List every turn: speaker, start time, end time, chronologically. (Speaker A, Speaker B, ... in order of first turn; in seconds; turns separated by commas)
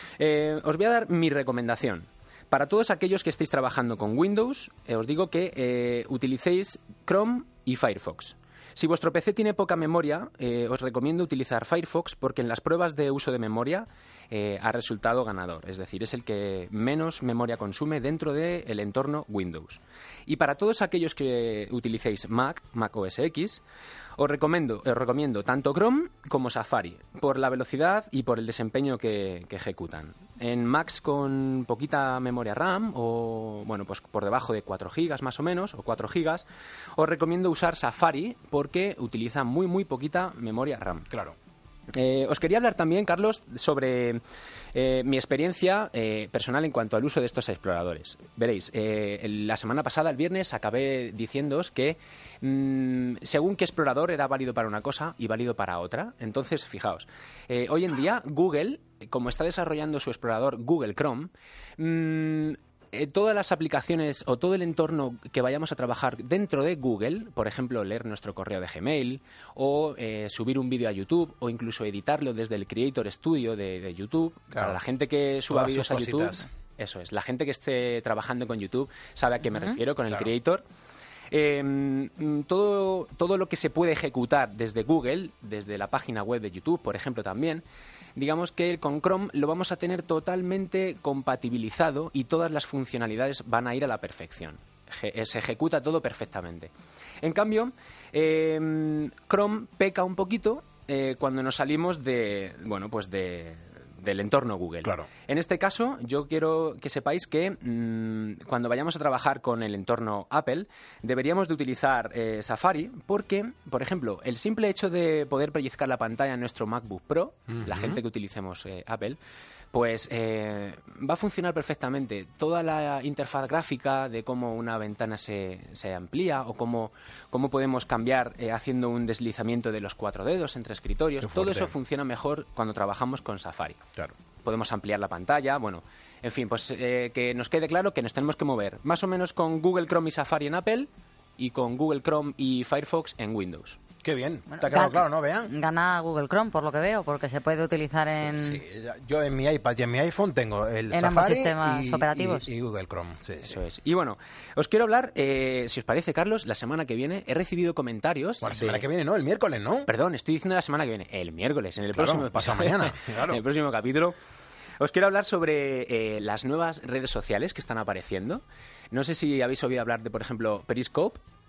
Speaker A: 0.2-23.6, Speaker A: 24.2-36.5, Speaker A: 37.0-41.1, Speaker B: 41.1-41.4, Speaker A: 42.0-44.2, Speaker A: 44.7-80.6, Speaker B: 75.5-76.5, Speaker A: 81.3-87.6, Speaker A: 88.2-96.7, Speaker A: 97.2-119.2, Speaker B: 117.6-118.0, Speaker A: 119.7-133.8, Speaker B: 131.2-131.7, Speaker A: 134.4-143.8, Speaker B: 144.0-145.5, Speaker C: 144.6-148.6, Speaker B: 148.3-153.6, Speaker C: 150.9-152.5, Speaker A: 153.4-158.8, Speaker B: 158.4-159.9, Speaker A: 159.9-164.2, Speaker B: 161.9-163.4, Speaker A: 164.8-171.2